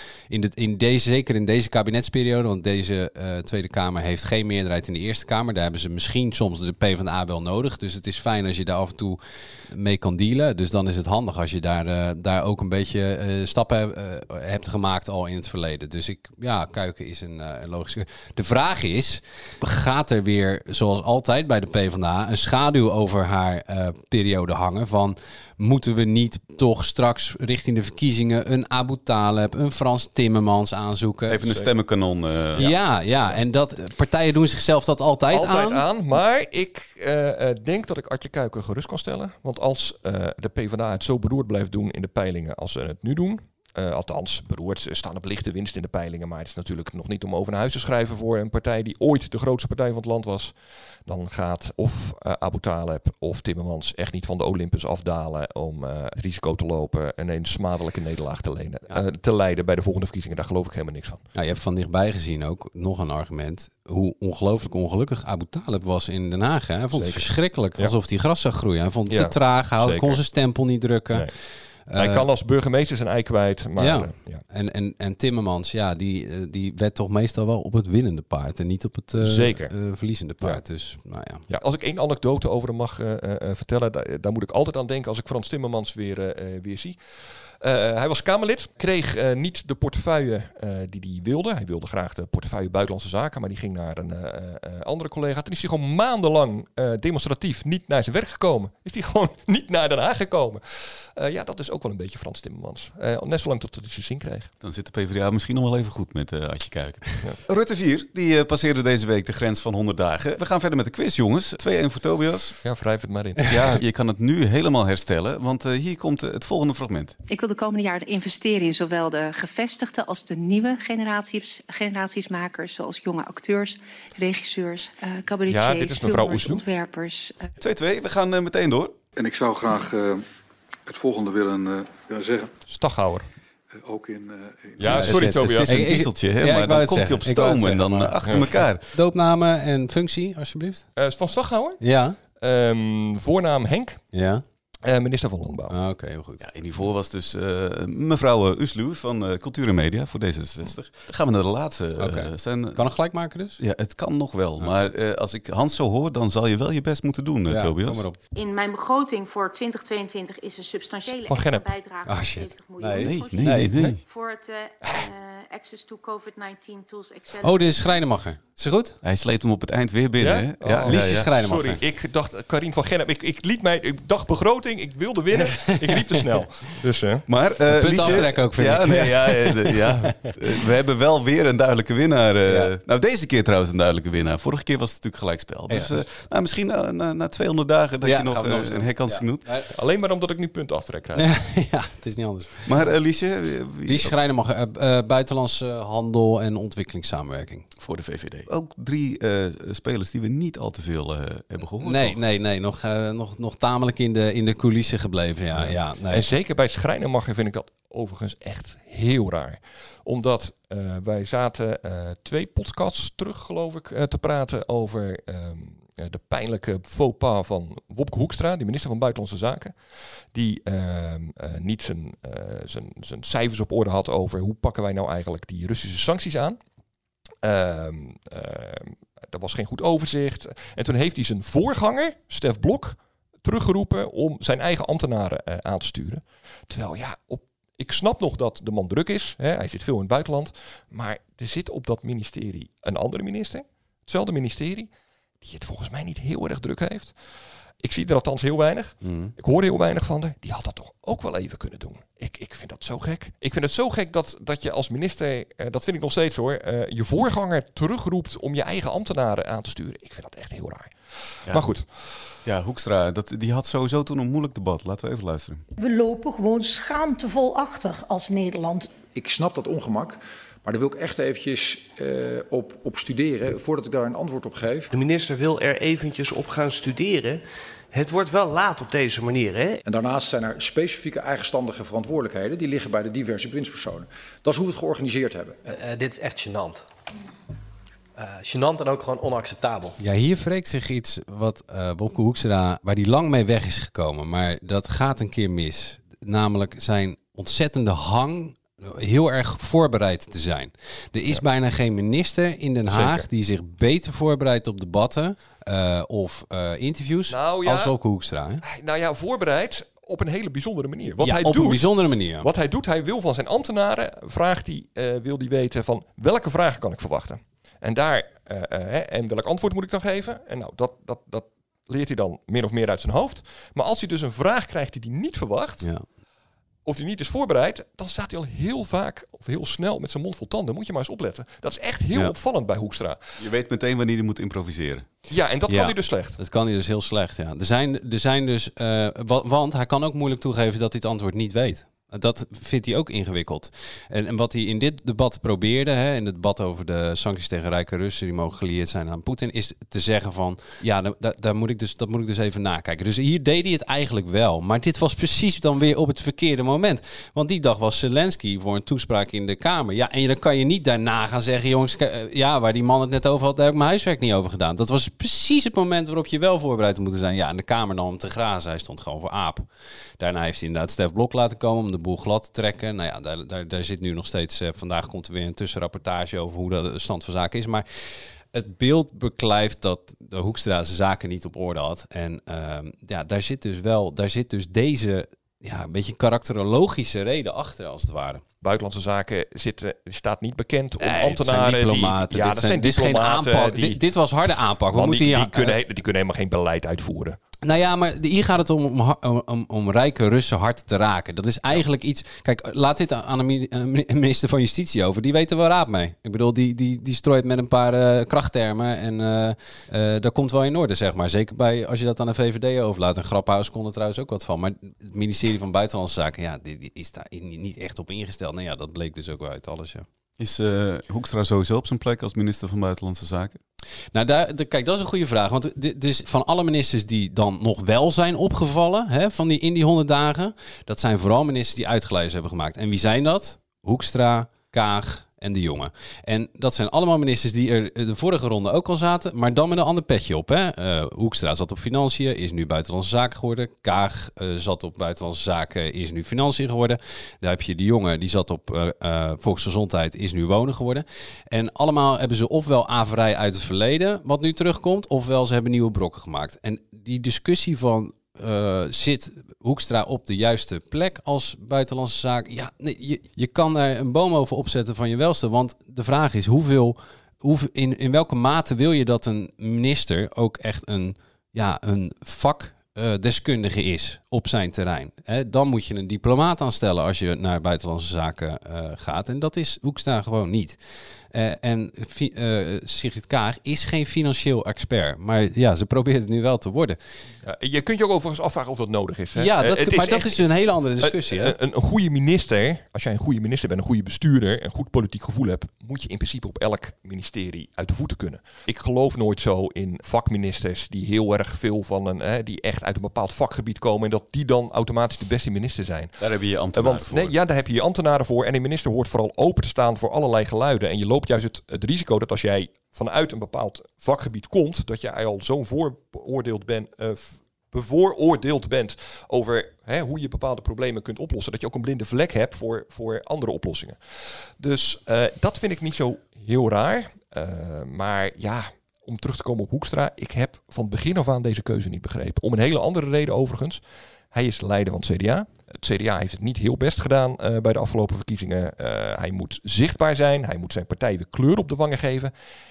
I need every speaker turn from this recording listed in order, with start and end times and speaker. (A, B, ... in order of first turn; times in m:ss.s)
0:00.3-0:31.4 A
0:31.3-0:32.7 B
0:32.6-0:35.8 A
0:35.3-0:50.5 C
0:51.0-1:01.2 C
1:01.3-1:11.2 A
1:06.9-1:08.0 C
1:09.1-1:10.2 C
1:11.9-1:12.2 A
1:11.9-1:14.4 C
1:13.8-1:21.4 A
1:19.2-1:19.7 C
1:21.5-1:27.0 C
1:27.6-1:44.5 C
1:44.6-1:52.6 B
1:52.6-1:53.8 C
1:53.4-1:57.2 B
1:57.3-2:07.5 D
2:05.5-2:06.6 C
2:07.6-2:09.0 B
2:09.2-2:10.2 E
2:10.8-2:12.5 E
2:12.7-2:13.3 C
2:13.8-2:15.1 E
2:14.8-2:15.8 C
2:14.8-2:18.9 B
2:14.8-2:20.9 A
2:21.0-2:21.8 C
2:21.8-2:22.2 A
2:22.4-2:24.0 C
2:24.1-2:24.4 A
2:24.8-2:25.7 C
2:25.7-2:26.4 A
2:26.4-2:32.9 B
2:32.0-2:33.6 A
2:33.6-2:38.0 B
2:37.5-2:38.2 A
2:38.2-2:48.1 F
2:41.3-2:41.7 C
2:42.0-2:44.0 A
2:43.0-2:44.0 B
2:47.4-2:49.0 A
2:49.0-2:51.3 B
2:50.2-2:57.2 C
2:50.8-2:51.8 A
2:57.3-3:09.4 B
2:57.7-3:00.4 A
3:05.7-3:06.0 A
3:08.0-3:09.7 A
3:09.7-3:11.3 C
3:11.2-3:12.9 A
3:12.6-3:14.1 B
3:13.8-3:17.7 A
3:17.8-3:22.2 B
3:21.8-3:26.2 A
3:25.6-3:39.8 C
3:40.3-3:46.6 C
3:47.4-4:04.9 C
4:05.4-4:07.1 C
4:07.8-4:21.8 C
4:09.0-4:09.3 A
4:21.5-4:21.7 B
4:22.4-4:25.6 B
4:25.8-4:28.9 G
4:29.1-4:34.9 H
4:34.9-4:39.8 I
4:39.8-4:45.7 H
4:46.0-4:46.8 J
4:48.3-4:49.9 J
4:50.0-5:08.6 A
5:02.9-5:03.2 C
5:07.3-5:07.9 C
5:08.6-5:11.9 C
5:11.2-5:12.5 A
5:12.4-5:25.9 C
5:26.8-5:33.2 C
5:33.4-5:35.1 B
5:35.3-5:36.4 C
5:35.7-6:09.6 A
6:10.2-6:28.4 A
6:28.6-6:34.0 C
6:31.0-6:35.8 A
6:34.9-6:37.4 C
6:37.6-7:00.0 A
7:00.4-7:03.6 B
7:04.1-8:00.8 A
8:01.3-8:07.0 A
8:07.4-8:26.2 C
8:09.4-8:11.5 A
8:26.2-8:27.3 B
8:26.7-8:44.0 C
8:44.6-9:02.3 C